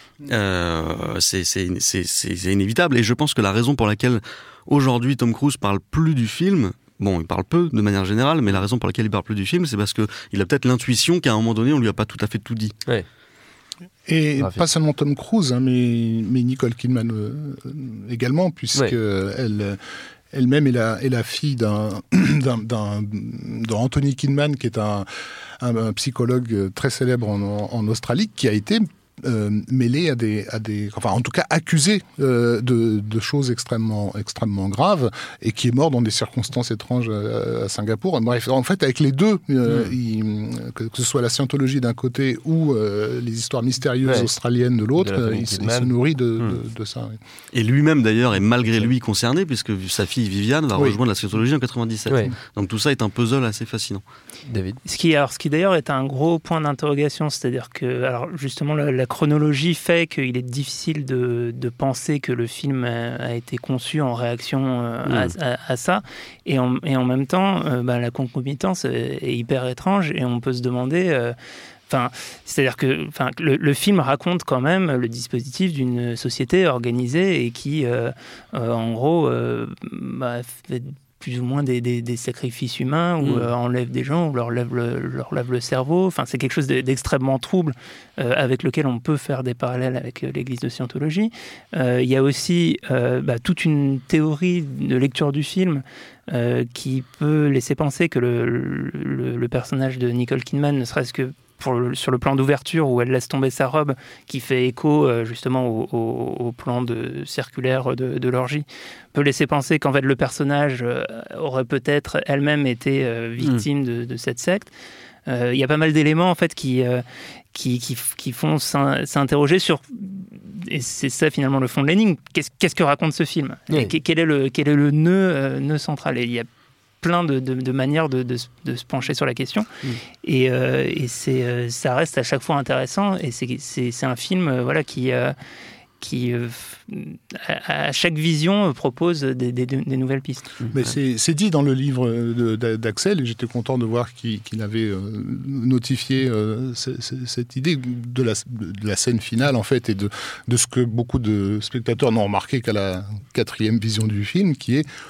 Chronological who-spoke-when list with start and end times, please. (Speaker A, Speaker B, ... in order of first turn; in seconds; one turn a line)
Speaker A: 0.2-12.7
Speaker B: 14.1-19.8
Speaker B: 20.3-25.1
Speaker B: 25.6-47.2
Speaker C: 44.0-44.3
Speaker C: 45.0-46.6
Speaker A: 47.5-54.0
Speaker C: 52.1-52.3
Speaker C: 54.5-54.8
Speaker D: 54.8-71.3
Speaker C: 65.0-65.3
Speaker D: 71.9-114.7
Speaker C: 83.2-83.5
Speaker D: 115.3-126.5
Speaker D: 127.0-129.7
Speaker D: 130.2-135.3
Speaker D: 136.0-140.5
Speaker B: 140.7-154.9